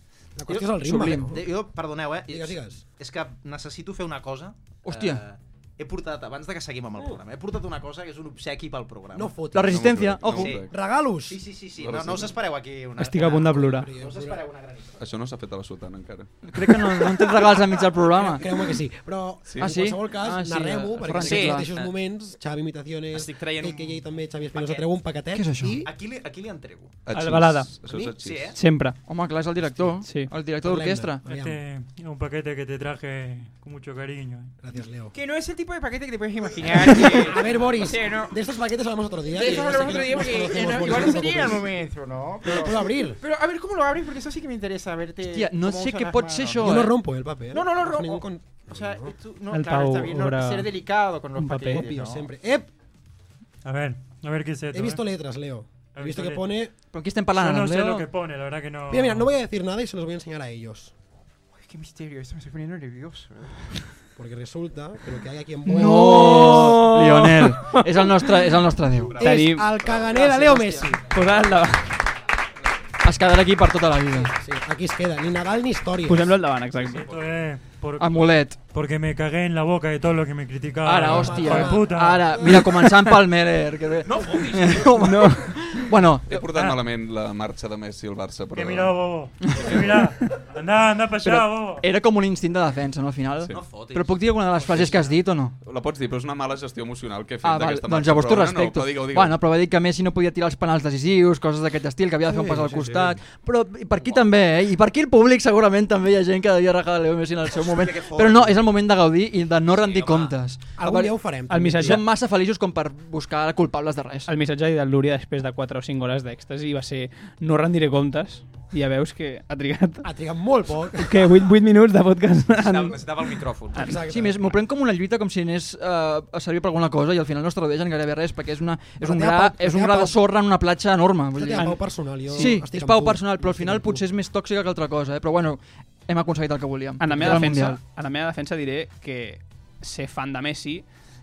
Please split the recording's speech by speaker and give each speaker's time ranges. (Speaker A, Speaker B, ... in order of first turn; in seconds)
Speaker A: 0.4-1.4, 2.3-2.8, 9.1-11.4, 13.5-14.4, 18.3-25.9, 30.6-31.6, 34.6-35.1, 36.9-41.7, 42.4-43.2, 46.6-49.1, 51.6-52.7, 54.7-56.7, 58.9-60.9, 64.2-66.8, 69.2-71.1, 74.2-76.4, 81.0-82.6, 110.8-112.0, 120.0-121.3, 123.8-124.5, 129.0-130.2, 131.3-134.1
Speaker B: 0.5-9.3, 10.3-10.6, 11.3-15.0, 17.1-17.6, 21.2-21.9, 23.1-24.8, 25.8-27.0, 27.9-28.6, 39.6-41.3, 45.1-46.1, 47.6-48.0, 48.7-49.8, 50.7-51.0, 76.9-77.2, 84.0-85.1, 93.5-95.1, 107.5-108.6, 109.7-110.4, 122.6-124.0
Speaker C: 0.8-1.3, 4.8-5.2, 9.5-10.5, 16.5-18.4, 19.6-21.7, 25.3-25.8, 29.0-31.2, 45.2-46.9, 56.9-58.1, 65.6-69.2, 73.0-74.3, 78.0-78.6, 80.8-86.4, 89.5-89.7, 91.2-95.5, 97.4-114.3, 124.1-137.8
Speaker D: 9.7-10.7, 11.8-12.3, 15.0-16.4, 19.4-19.7, 27.1-28.6, 69.1-70.0, 86.3-89.0, 95.6-99.4
Speaker E: 13.0-13.9, 27.1-27.7, 28.5-29.0, 30.0-30.3, 49.5-50.7, 51.4-51.9, 66.1-68.2, 69.2-72.0, 76.1-77.1, 111.5-112.0, 114.3-120.0, 121.0-123.0, 137.0-140.9
Speaker F: 31.2-34.5, 53.6-55.0, 55.9-56.4, 57.3-59.3, 76.9-82.2, 88.5-91.8
Speaker G: 35.1-37.2, 39.4-42.4, 43.2-46.6, 47.9-48.1, 49.6-52.0, 61.7-63.5